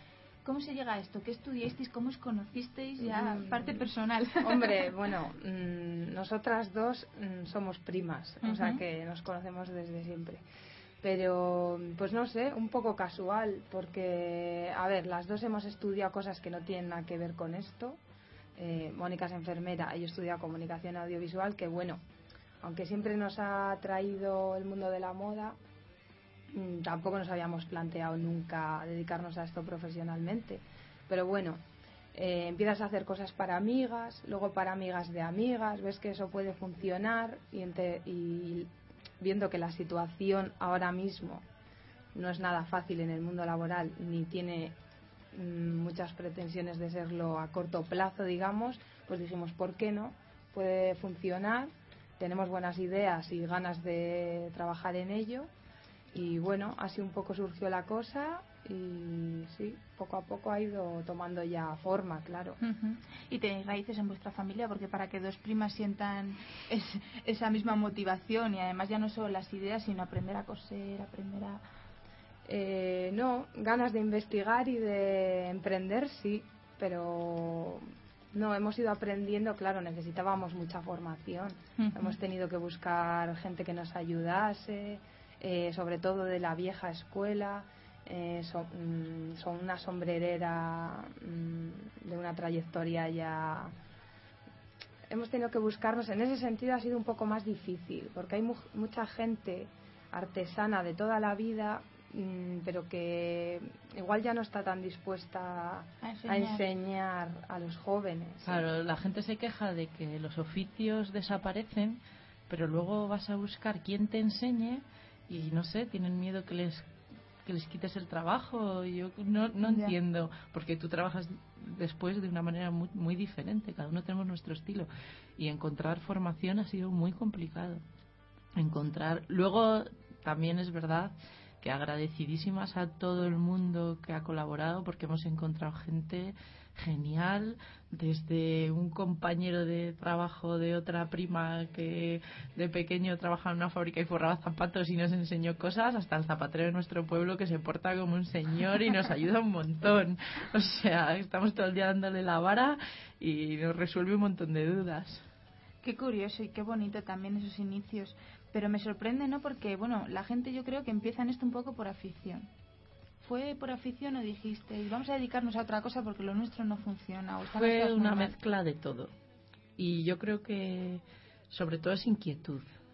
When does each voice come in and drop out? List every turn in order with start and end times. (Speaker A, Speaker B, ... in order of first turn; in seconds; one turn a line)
Speaker A: 0.4-4.8
Speaker B: 3.0-3.9
Speaker B: 4.4-10.4
Speaker A: 8.4-8.8
Speaker B: 11.0-18.0
Speaker B: 18.6-22.0
Speaker B: 22.6-25.6
Speaker B: 26.5-31.6
Speaker B: 32.1-38.7
Speaker B: 39.2-41.5
Speaker B: 42.1-44.8
Speaker B: 45.3-55.5
Speaker B: 56.1-62.6
Speaker A: 62.6-71.6
Speaker B: 72.5-93.7
Speaker A: 81.8-82.2
Speaker B: 95.1-108.6
Speaker A: 106.0-106.6
Speaker C: 108.4-116.9
Speaker C: 117.4-127.8
Speaker A: 119.6-120.0
Speaker C: 128.6-155.2
Speaker A: 155.8-162.5
Speaker A: 163.2-168.3
Speaker C: 167.5-169.1
Speaker C: 169.8-172.7